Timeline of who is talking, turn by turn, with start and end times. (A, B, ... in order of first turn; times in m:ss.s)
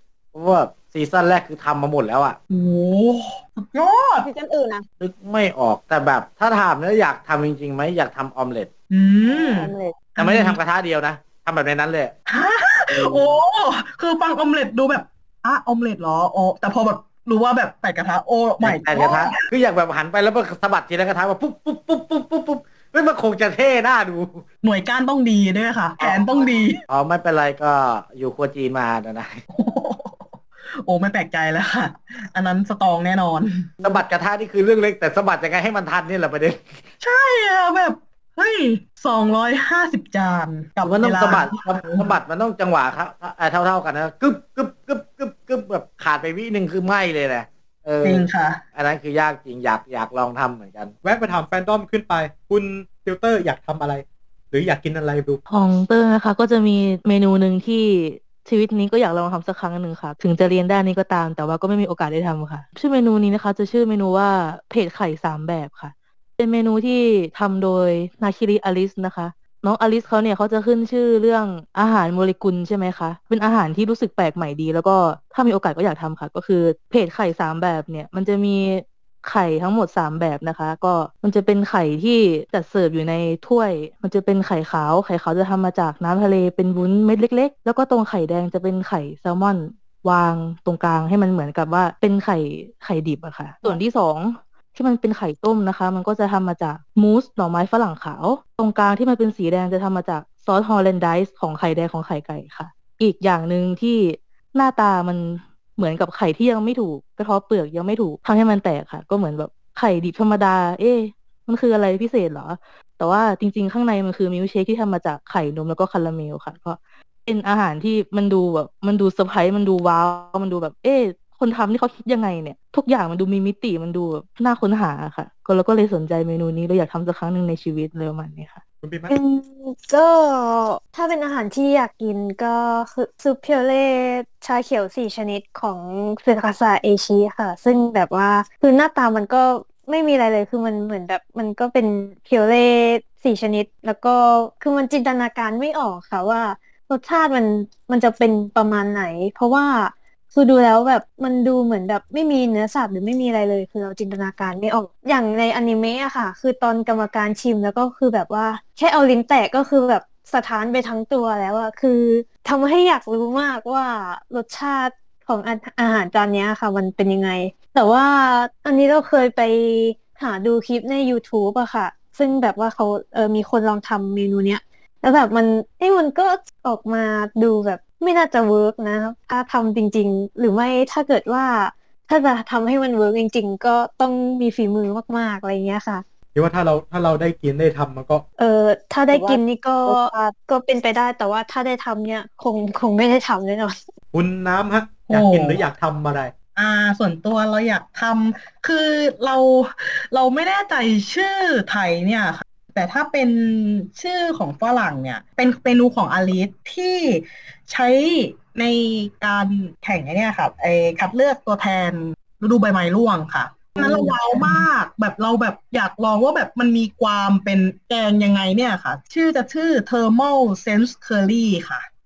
0:00.3-0:02.4 A
0:02.5-0:04.3 B
0:04.2-0:04.9 C
0:05.0-0:08.7 A
0:08.9-0:10.6 B
0:09.2-0:10.0 C
0:10.2-0:12.1 A
0:12.3-0:19.4 B
0:18.6-0:24.4 A
0:24.6-0:26.8 B
0:26.9-0:29.4 A
0:29.5-0:33.7 B
0:33.8-0:36.8 A
0:37.0-0:42.1 B
0:40.8-0:50.9 A
0:48.0-0:48.6 B
0:51.0-0:55.4 D
0:55.5-2:08.6 E
2:08.8-2:09.2 D
2:09.1-3:06.0 F
3:06.4-3:08.2 D
3:08.4-3:13.8 F
3:09.1-3:10.4 C
3:14.1-3:16.3 D
3:15.1-3:15.6 B
3:16.6-3:41.9 B
3:33.8-3:34.1 C